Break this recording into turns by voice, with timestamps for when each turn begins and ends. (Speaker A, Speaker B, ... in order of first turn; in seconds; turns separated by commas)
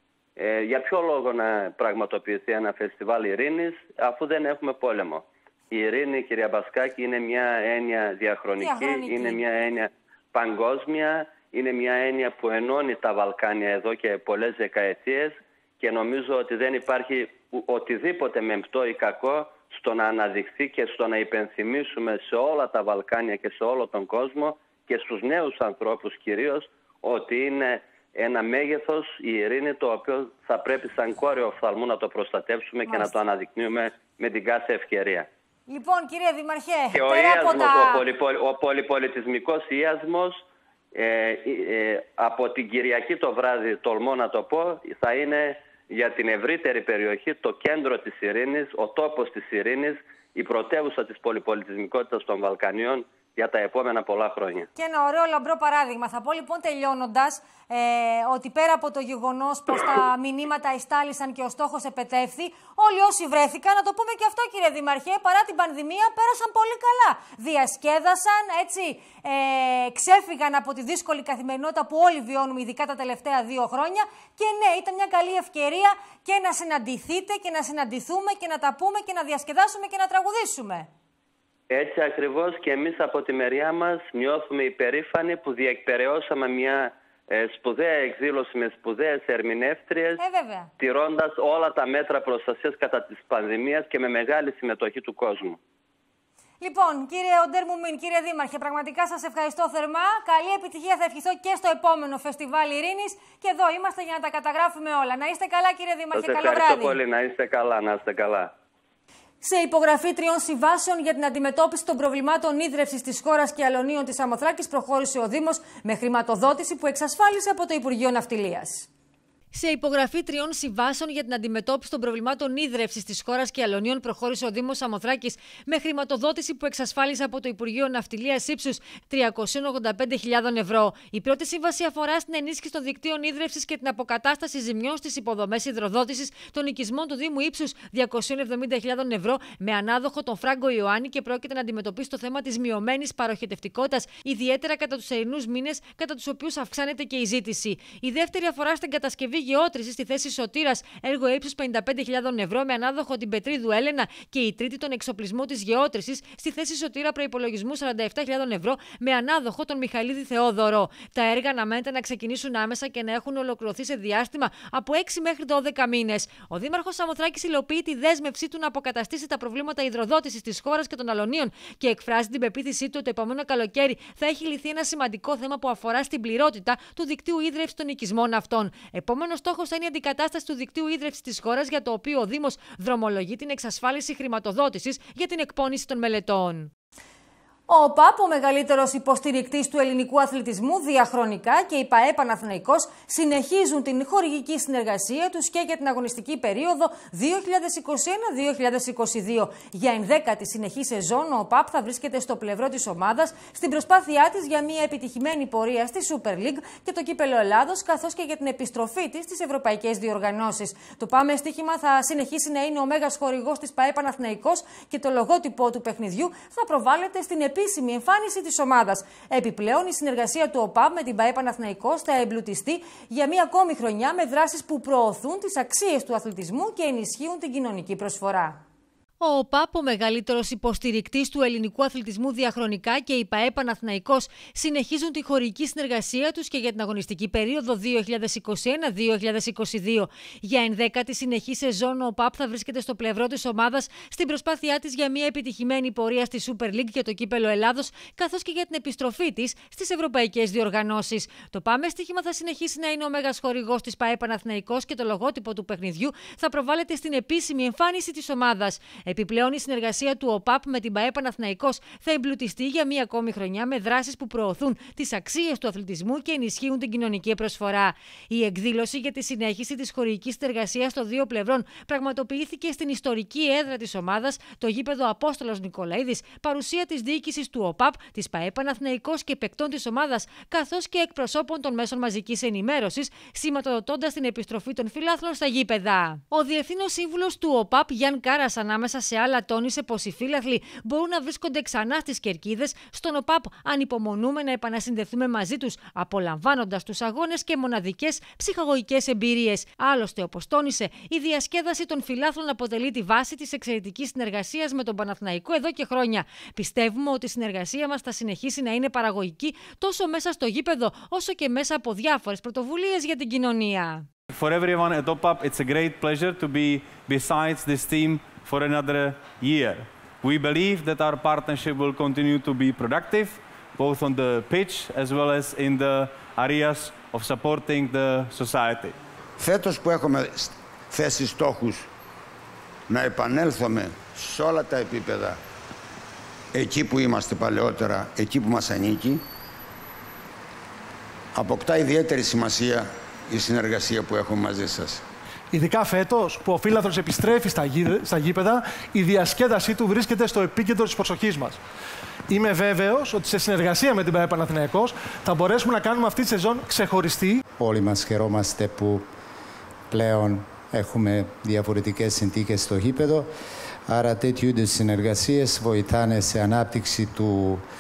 Speaker A: 0.4-35.3, Speaker B: 8.6-9.4, Speaker B: 35.7-38.0, Speaker A: 36.9-54.7, Speaker B: 54.8-80.9, Speaker A: 81.7-90.2, Speaker B: 90.2-90.7, Speaker A: 90.8-95.6, Speaker B: 96.6-107.0, Speaker A: 106.1-108.5, Speaker B: 109.4-118.9, Speaker B: 119.5-186.7, Speaker B: 187.7-228.6, Speaker B: 229.2-314.1, Speaker C: 314.3-329.0, Speaker D: 329.4-331.9, Speaker D: 332.9-335.4, Speaker D: 336.5-339.2, Speaker D: 341.4-345.0, Speaker E: 345.5-351.6, Speaker E: 352.3-357.4, Speaker F: 357.6-359.1, Speaker F: 359.9-363.3, Speaker F: 363.9-367.6